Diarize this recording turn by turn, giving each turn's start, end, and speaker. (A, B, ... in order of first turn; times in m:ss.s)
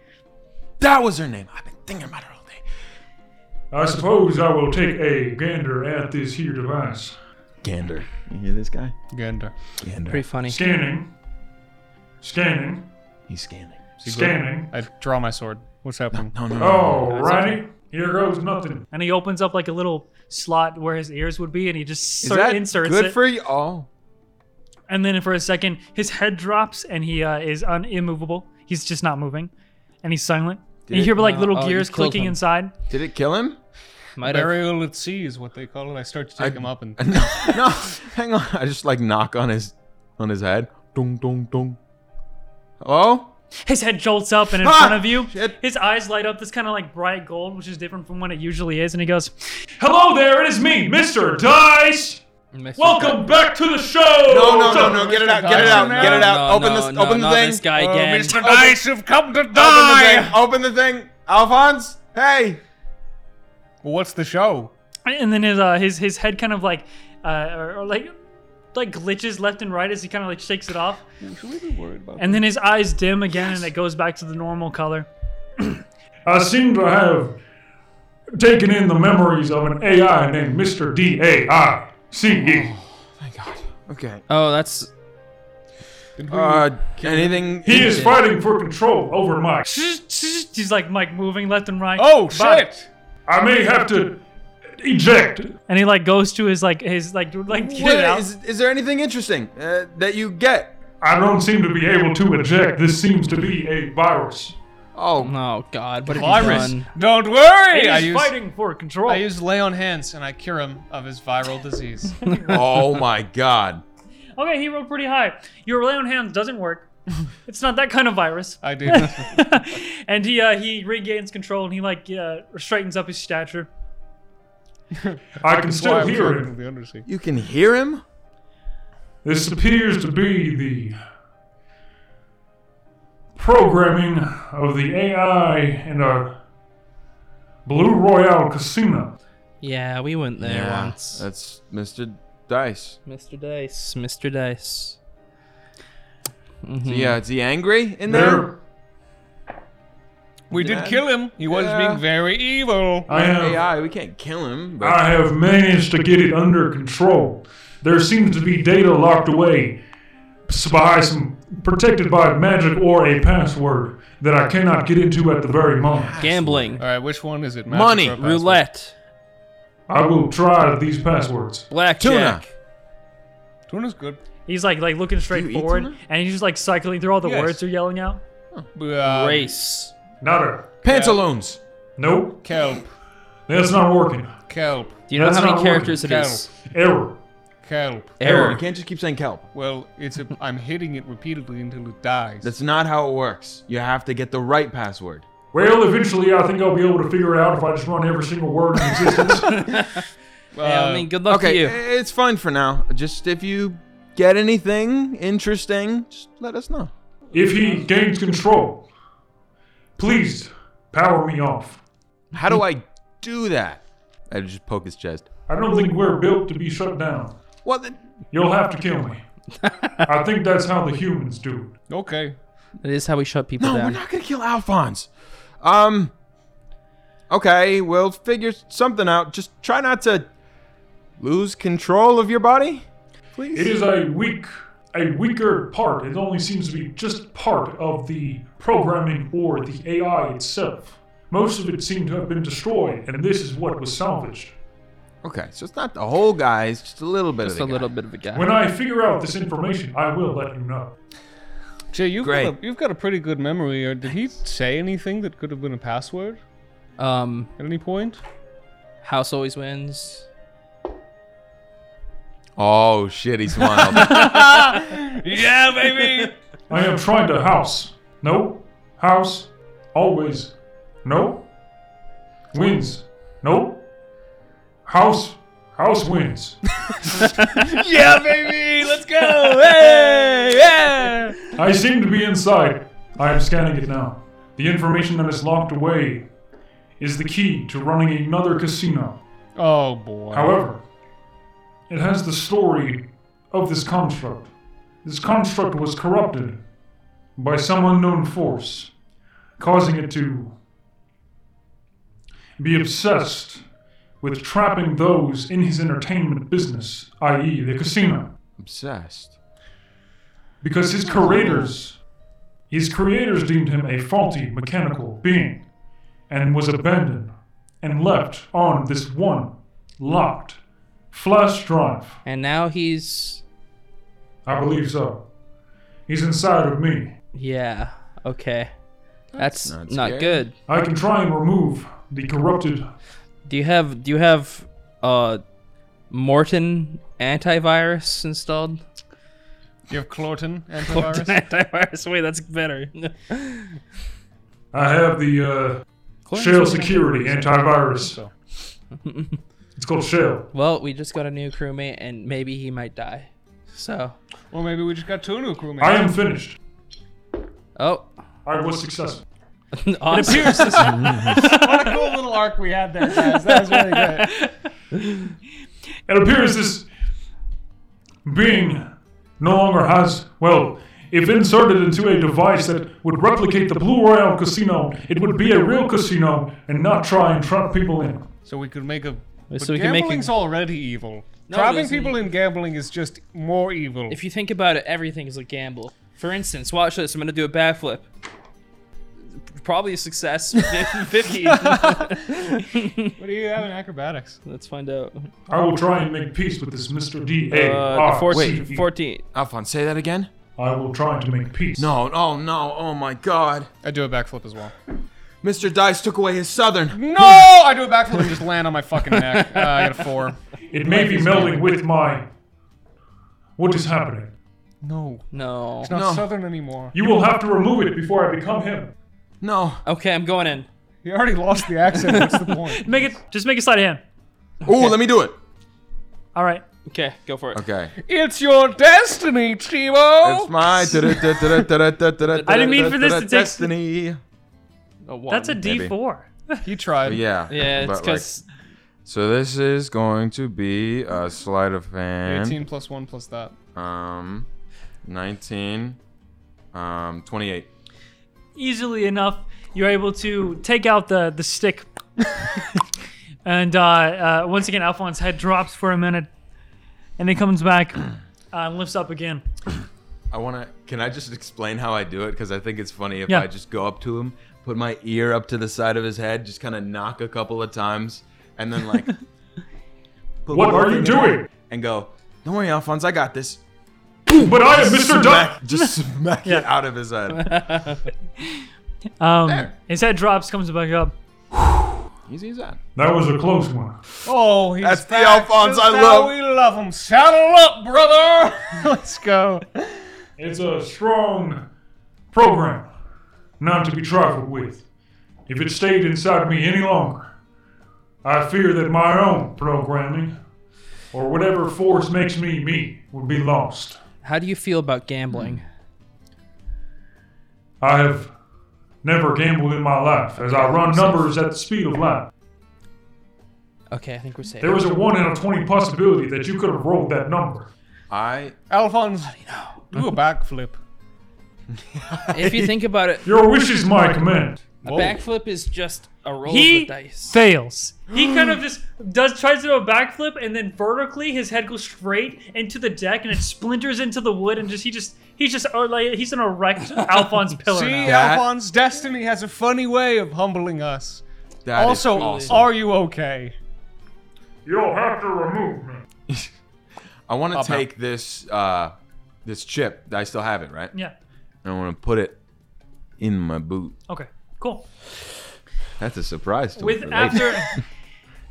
0:00.8-0:02.6 A
0:03.7-0:07.2 B
0:07.6-0:08.9 A
0:09.1-0:09.5 C
0:09.8-0:10.2 A
0:10.1-0:10.6 D
0:10.4-0:11.1 B
0:12.2-0:12.9 B
0:13.3-0:14.3 A
0:14.0-0:14.7 B
0:14.2-0:16.5 C
0:16.1-0:17.1 A
0:16.6-0:18.8 B
0:17.0-0:17.6 D
0:18.9-0:23.2 E
0:22.2-0:23.9 A
0:24.9-0:29.5 E
0:30.0-0:32.7 E
0:30.9-0:31.1 A
0:31.2-0:32.4 D
0:32.9-0:33.6 A
0:34.2-0:34.6 D
0:34.2-0:37.7 C
0:36.4-0:41.8 A
0:42.8-0:43.3 A
0:43.6-0:49.3 E
0:44.6-0:45.6 A
0:49.8-0:52.2 B
0:52.5-0:53.4 D
0:52.8-0:55.6 B
0:54.2-0:57.7 A
0:54.5-0:56.4 C
0:55.6-0:58.6 D
0:57.7-1:00.4 C
0:58.4-0:58.8 A
0:59.5-1:02.6 A
1:03.8-1:04.7 C
1:05.0-1:08.1 E
1:08.7-1:11.0 E
1:11.2-1:12.4 C
1:12.2-1:15.1 E
1:16.2-1:17.4 B
1:18.3-1:22.7 B
1:22.4-1:24.2 A
1:24.3-1:24.9 D
1:26.2-1:27.7 C
1:26.3-1:28.2 A
1:27.6-1:29.7 B
1:27.7-1:28.1 D
1:29.7-1:32.7 E
1:32.0-1:32.9 C
1:33.3-1:34.2 B
1:34.8-1:35.6 B
1:35.7-1:38.3 E
1:37.5-1:40.8 A
1:41.0-1:44.6 B
1:44.9-1:45.3 A
1:45.2-1:46.9 D
1:46.0-1:48.3 C
1:46.3-1:46.6 A
1:47.7-1:49.2 E
1:49.1-1:52.2 C
1:52.2-1:52.6 E
1:52.5-1:53.8 A
1:54.4-1:56.9 E
1:57.4-2:03.7 E
1:58.6-1:59.6 C
2:04.9-2:07.0 C
2:05.4-2:06.5 B
2:07.0-2:08.0 A
2:09.2-2:11.0 B
2:13.3-2:16.4 B
2:17.6-2:19.1 B
2:19.6-2:21.2 D
2:20.4-2:23.0 A
2:23.0-2:25.0 D
2:26.6-2:27.2 D
2:26.8-2:28.5 A
2:28.1-2:28.6 B
2:30.5-2:33.1 C
2:30.5-2:32.0 A
2:33.1-2:33.6 B
2:33.1-2:35.0 A
2:34.8-2:39.8 B
2:40.5-2:46.2 B
2:45.9-2:46.8 A
2:46.2-2:46.8 D
2:46.8-2:48.6 C
2:47.7-2:48.2 A
2:48.2-2:48.9 D
2:49.9-2:51.7 B
2:51.7-2:52.5 D
2:52.0-2:52.4 A
2:53.7-2:54.2 C
2:54.5-2:58.2 E
2:55.3-2:56.0 A
2:57.2-2:57.6 C
2:58.7-2:59.5 C
2:59.0-2:59.9 D
3:00.2-3:00.8 B
3:00.8-3:01.6 A
3:00.8-3:01.2 C
3:02.0-3:02.5 B
3:02.4-3:02.9 C
3:03.5-3:04.4 B
3:04.5-3:05.0 C
3:05.1-3:06.5 D
3:05.1-3:06.0 B
3:05.8-3:06.5 C
3:06.6-3:07.2 B
3:07.6-3:08.6 C
3:08.2-3:08.6 D
3:08.2-3:09.5 A
3:09.5-3:12.5 C
3:12.4-3:15.3 A
3:15.5-3:19.6 B
3:19.5-3:20.0 D
3:20.5-3:21.1 C
3:20.6-3:21.8 D
3:21.2-3:26.9 A
3:27.3-3:28.8 B
3:27.4-3:27.8 C
3:30.0-3:31.8 B
3:32.3-3:35.3 A
3:35.5-3:37.3 B
3:37.6-3:38.0 A
3:38.3-3:39.2 B
3:39.6-3:40.0 D
3:40.0-3:41.8 B
3:41.9-3:42.4 C
3:42.8-3:44.0 D
3:43.6-3:45.1 A
3:45.6-3:46.1 A
3:47.3-3:50.3 A
3:51.2-3:53.7 A
3:53.5-4:04.5 B
4:05.2-4:07.9 A
4:07.4-4:08.5 D
4:08.3-4:10.9 B
4:11.9-4:16.4 C
4:12.2-4:12.6 A
4:17.0-4:17.5 D
4:17.6-4:18.2 C
4:19.0-4:20.2 D
4:22.6-4:24.4 A
4:23.8-4:26.3 C
4:25.9-4:26.3 D
4:26.7-4:31.4 B
4:32.5-4:33.8 B
4:34.8-4:36.6 B
4:37.5-4:41.5 C
4:38.8-4:41.0 D
4:41.5-4:46.2 B
4:47.0-4:49.2 B
4:49.6-4:50.6 C
4:50.3-4:50.8 B
4:51.9-4:54.5 B
4:55.0-4:56.6 B
4:57.4-4:58.9 B
4:59.6-5:00.5 B
5:02.6-5:03.6 B
5:04.2-5:08.3 B
5:08.6-5:09.4 A
5:10.6-5:12.0 B
5:11.1-5:11.7 A
5:12.7-5:15.6 B
5:16.3-5:20.6 B
5:21.1-5:22.2 B
5:22.2-5:23.4 D
5:24.4-5:25.2 B
5:26.1-5:27.1 B
5:27.3-5:28.7 D
5:29.3-5:30.5 D
5:29.6-5:30.4 A
5:30.6-5:32.9 B
5:33.4-5:35.4 D
5:36.1-5:38.8 D
5:39.9-5:41.3 C
5:40.8-5:43.8 D
5:44.7-5:48.2 B
5:46.2-5:47.5 D
5:46.7-5:47.0 C
5:47.7-5:48.3 C
5:49.0-5:49.4 D
5:49.8-5:50.5 B
5:50.5-5:54.2 D
5:54.5-5:56.1 C
5:55.8-5:56.6 B
5:57.8-5:58.1 D
5:58.4-5:59.2 B
5:59.7-6:01.6 D
6:00.1-6:01.7 E
6:00.2-6:04.4 C
6:00.9-6:01.4 A
6:03.7-6:04.0 D
6:06.1-6:06.9 B
6:08.2-6:18.2 B
6:18.4-6:24.2 C
6:19.5-6:20.3 D
6:21.5-6:22.3 D
6:24.1-6:28.0 D
6:29.6-6:33.1 D
6:31.4-6:32.2 C
6:33.2-6:34.4 C
6:34.4-6:35.3 D
6:35.5-6:38.8 B
6:37.5-6:39.2 D
6:38.3-6:38.6 A
6:39.3-6:40.3 A
6:40.6-6:41.9 B
6:41.8-6:43.7 A
6:43.8-6:44.7 C
6:45.4-6:47.0 A
6:46.9-6:51.6 C
6:49.2-6:50.0 D
6:50.7-6:52.2 B
6:53.6-6:54.3 B
6:54.8-6:55.3 C
6:55.3-6:55.9 D
6:55.8-6:56.9 C
6:55.9-6:56.3 A
6:56.9-6:58.9 B
6:59.4-6:59.8 A
6:59.8-7:00.7 D
7:01.0-7:02.9 C
7:01.9-7:02.5 D
7:02.8-7:04.0 E
7:04.6-7:05.4 A
7:06.3-7:06.6 E
7:06.9-7:07.6 D
7:07.5-7:07.9 A
7:08.0-7:11.5 C
7:10.2-7:14.2 A
7:12.3-7:13.0 D
7:12.4-7:13.7 E
7:15.0-7:15.6 D
7:15.3-7:16.6 E
7:15.6-7:15.9 A
7:16.6-7:17.2 C
7:17.0-7:18.3 A
7:17.5-7:18.4 D
7:19.0-7:22.6 A
7:22.2-7:23.5 C
7:23.7-7:24.5 A
7:25.0-7:26.0 A
7:26.7-7:27.7 A
7:28.6-7:31.8 E
7:33.4-7:36.3 E
7:37.2-7:39.4 E
7:40.3-7:49.2 A
7:50.4-7:53.6 A
7:50.5-7:51.5 B
7:54.3-7:57.8 A
7:54.4-7:55.6 B
7:57.4-7:58.0 D
7:59.2-8:01.1 E
7:59.4-7:59.7 A
8:02.3-8:02.8 A
8:03.0-8:04.0 B
8:04.2-8:10.1 C
8:04.8-8:06.3 A
8:10.4-8:11.6 B
8:12.3-8:12.9 B
8:13.6-8:14.8 B
8:15.5-8:17.3 B
8:18.2-8:20.3 B
8:21.1-8:24.0 B
8:24.2-8:25.6 D
8:25.3-8:25.6 A
8:27.8-8:28.3 B
8:29.0-8:32.3 B
8:30.4-8:31.3 D
8:33.9-8:34.9 D
8:34.6-8:37.7 B
8:38.1-8:38.5 A
8:38.7-8:39.4 C
8:39.3-8:40.0 D
8:39.9-8:40.8 C
8:41.7-8:42.7 A
8:42.3-8:43.2 D
8:43.2-8:44.7 B
8:44.8-8:47.4 D
8:44.8-8:45.2 C
8:46.4-8:58.2 E
8:57.7-9:01.2 C
8:58.0-8:58.5 A
9:01.6-9:02.7 A
9:01.7-9:03.5 C
9:02.1-9:02.6 D
9:04.6-9:06.0 B
9:07.3-9:10.9 A
9:07.5-9:07.8 C
9:11.6-9:12.4 A
9:13.2-9:14.0 A
9:14.1-9:14.8 E
9:16.0-9:17.8 A
9:16.8-9:17.8 E